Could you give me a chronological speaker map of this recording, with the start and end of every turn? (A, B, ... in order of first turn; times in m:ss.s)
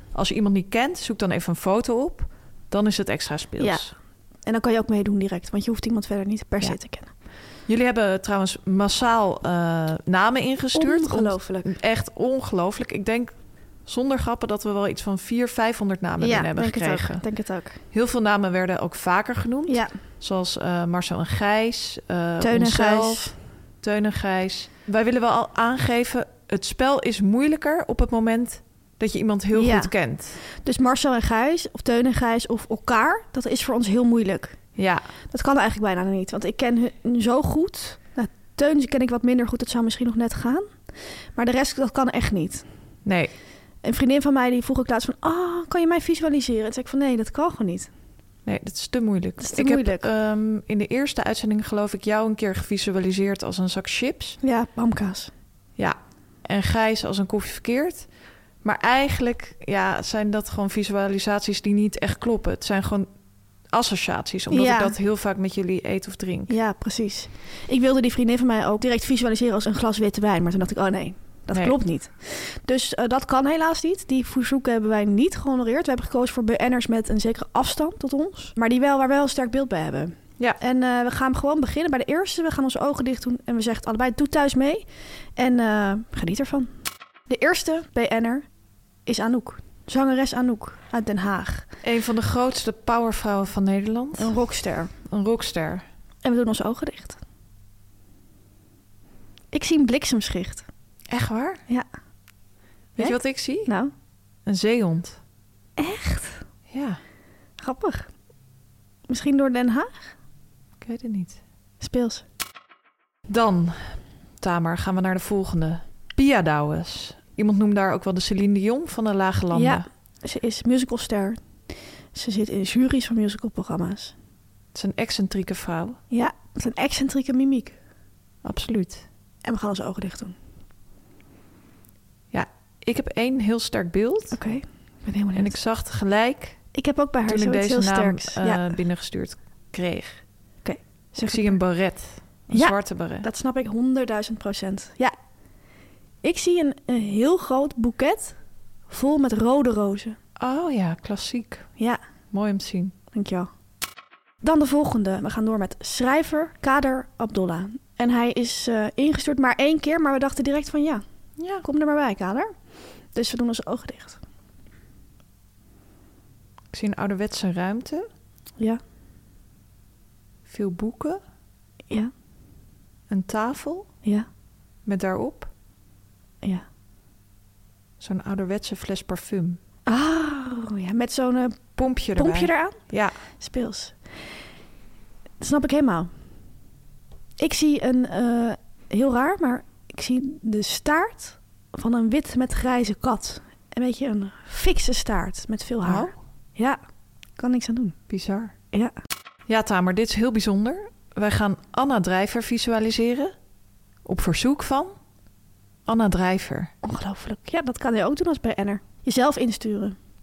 0:00.1-0:03.9 A
0:03.6-0:03.9 B
0:04.5-0:07.1 B
0:07.7-0:13.3 A
0:10.7-0:11.7 B
0:13.9-0:17.2 A
0:16.2-0:17.8 B
0:17.9-0:30.4 A
0:19.7-0:20.0 B
0:22.4-0:23.4 B
0:29.5-0:34.6 B
0:34.8-0:35.1 A
0:35.3-0:40.7 B
0:41.4-0:42.6 B
0:43.0-0:43.3 A
0:43.8-0:47.9 B
0:48.4-0:54.4 A
0:49.4-0:50.1 B
0:54.4-0:55.3 B
0:55.8-0:58.1 A
0:58.6-1:03.1 A
1:03.7-1:06.6 A
1:04.5-1:05.0 B
1:06.5-1:24.8 B
1:25.4-1:26.7 B
1:27.3-1:28.5 B
1:29.1-1:31.7 B
1:31.8-1:34.3 A
1:34.2-1:34.9 B
1:35.0-1:35.8 A
1:36.2-1:37.2 B
1:39.5-1:40.7 B
1:41.1-1:41.6 A
1:43.0-1:43.7 A
1:43.0-1:43.9 B
1:44.4-1:45.2 A
1:45.8-1:46.4 B
1:46.7-1:47.0 A
1:47.6-1:48.1 B
1:49.1-1:50.1 B
1:50.8-1:51.4 A
1:51.8-1:52.2 B
1:53.3-1:59.8 A
1:59.5-2:01.4 B
2:02.1-2:04.1 B
2:04.7-2:06.0 A
2:06.1-2:07.8 B
2:08.4-2:09.0 A
2:09.4-2:10.4 B
2:12.3-2:14.4 A
2:14.3-2:15.6 B
2:15.3-2:16.6 A
2:16.7-2:18.8 B
2:17.3-2:20.2 A
2:20.6-2:21.6 B
2:21.2-2:23.3 A
2:22.5-2:25.1 B
2:26.2-2:28.4 B
2:28.9-2:30.2 B
2:30.4-2:31.7 A
2:32.3-2:32.9 A
2:33.1-2:33.5 B
2:34.4-2:41.0 B
2:41.4-2:41.6 A
2:41.6-2:42.5 B
2:43.1-2:44.2 B
2:46.7-2:48.1 A
2:50.5-2:51.2 A
2:53.1-2:53.9 A
2:54.8-2:55.5 A
2:58.0-2:59.6 A
2:59.9-3:02.8 B
3:01.8-3:03.2 A
3:03.4-3:04.0 B
3:05.4-3:06.1 B
3:07.4-3:16.8 B
3:15.8-3:16.1 A
3:17.4-3:18.0 B
3:18.1-3:18.5 A
3:19.5-3:23.4 A
3:24.0-3:25.0 A
3:25.9-3:26.7 A
3:26.8-3:30.0 B